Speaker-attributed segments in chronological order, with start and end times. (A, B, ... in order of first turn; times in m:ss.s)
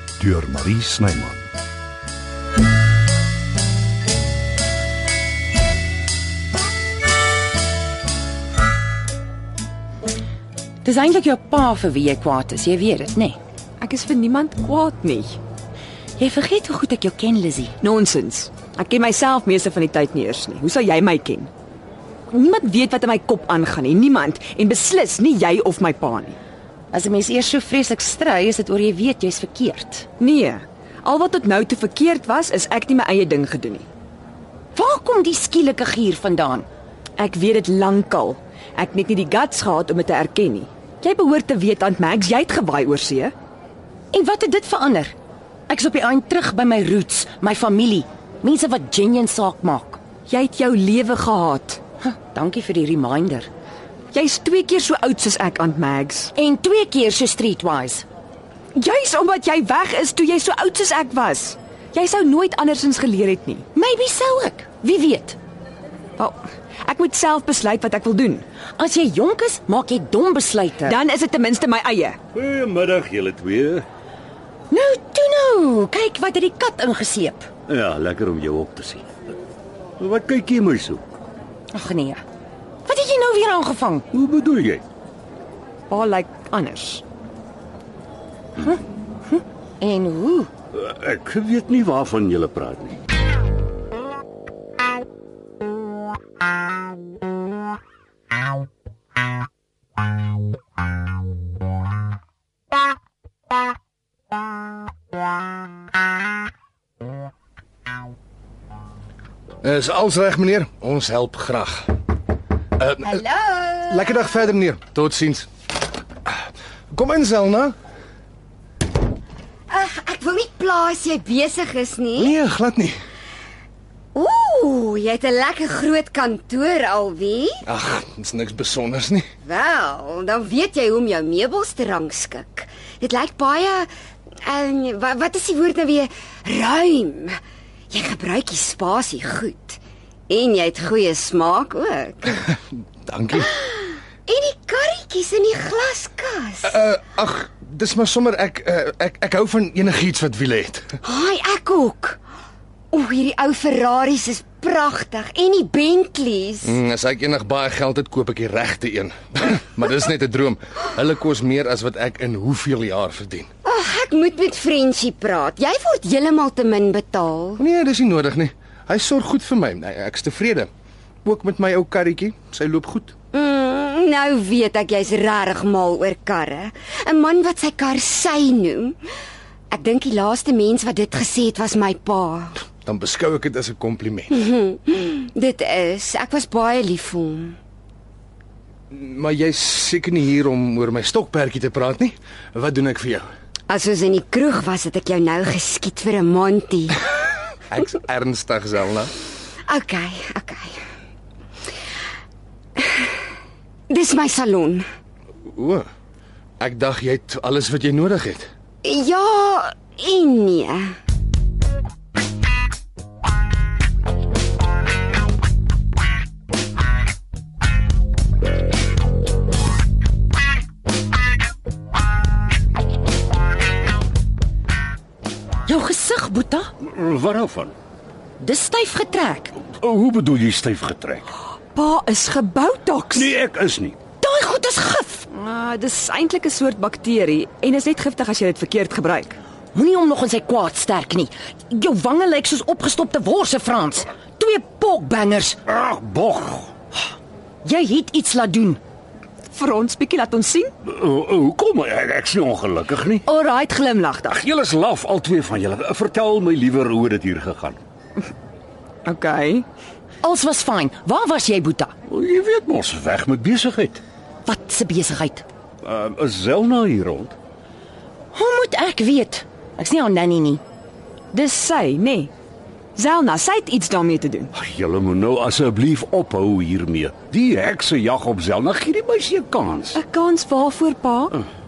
0:00.2-0:01.4 A
0:10.8-0:13.4 B
0:13.8-0:15.4 C
0:16.2-0:17.7 B
0:17.8-0:21.5 C
0:22.3-0:26.4 C
0:26.9-0:30.1 B
0:30.2-0:33.8 C
0:34.7-0:36.7 B
0:37.2-0:43.3 C
0:44.1-0:45.1 B
0:45.7-0:50.0 B
0:50.3-0:51.8 C
0:52.0-0:53.5 B
0:54.1-0:56.3 C
0:56.3-0:58.0 B
0:58.7-1:03.6 C
1:03.7-1:05.4 B
1:06.2-1:08.4 C
1:08.8-1:11.0 B
1:10.8-1:12.2 C
1:12.3-1:13.8 A
1:14.7-1:17.5 B
1:17.7-1:19.1 A
1:20.0-1:21.1 A
1:21.7-1:22.2 B
1:22.8-1:24.0 B
1:24.1-1:24.8 A
1:25.9-1:27.0 C
1:29.3-1:30.5 B
1:30.7-1:33.0 A
1:49.6-1:51.9 D
1:52.8-1:53.2 D
1:53.1-1:54.5 E
1:53.9-1:55.5 D
1:56.2-1:57.7 D
1:59.7-2:02.3 E
2:02.2-2:03.0 D
2:04.1-2:07.6 E
2:07.6-2:09.3 D
2:09.4-2:13.9 E
2:14.4-2:17.4 E
2:17.9-2:22.4 E
2:23.0-2:23.5 D
2:23.5-2:26.7 E
2:26.6-2:31.0 D
2:31.0-2:32.2 E
2:32.9-2:36.7 E
2:36.6-2:43.5 D
2:43.6-2:47.6 E
2:47.6-2:50.7 D
2:51.2-2:53.1 D
2:53.3-2:59.0 E
2:59.7-3:02.6 E
3:02.8-3:04.3 D
3:04.3-3:07.6 E
3:08.9-3:13.2 D
3:13.7-3:17.0 E
3:17.7-3:19.1 D
3:19.7-3:20.8 E
3:23.9-3:24.8 E
3:25.5-3:25.8 D
3:26.6-3:28.5 D
3:28.8-3:30.9 E
3:45.7-3:46.7 B
3:46.8-3:47.7 A
3:48.4-3:49.5 B
3:49.8-3:51.3 A
3:51.7-3:53.3 C
3:53.1-3:54.0 A
3:54.2-3:55.3 B
3:55.3-3:59.4 C
3:59.7-4:05.6 B
4:05.7-4:06.7 A
4:07.6-4:08.8 B
4:09.5-4:10.7 C
4:10.8-4:13.2 A
4:13.2-4:14.4 C
4:14.3-4:17.8 A
4:19.0-4:19.6 C
4:20.2-4:21.9 B
4:22.1-4:24.0 A
4:24.4-4:25.4 B
4:25.8-4:27.3 A
4:28.3-4:30.6 B
4:31.3-4:32.3 C
4:33.0-4:34.5 C
4:34.5-4:40.0 A
4:39.9-4:41.4 C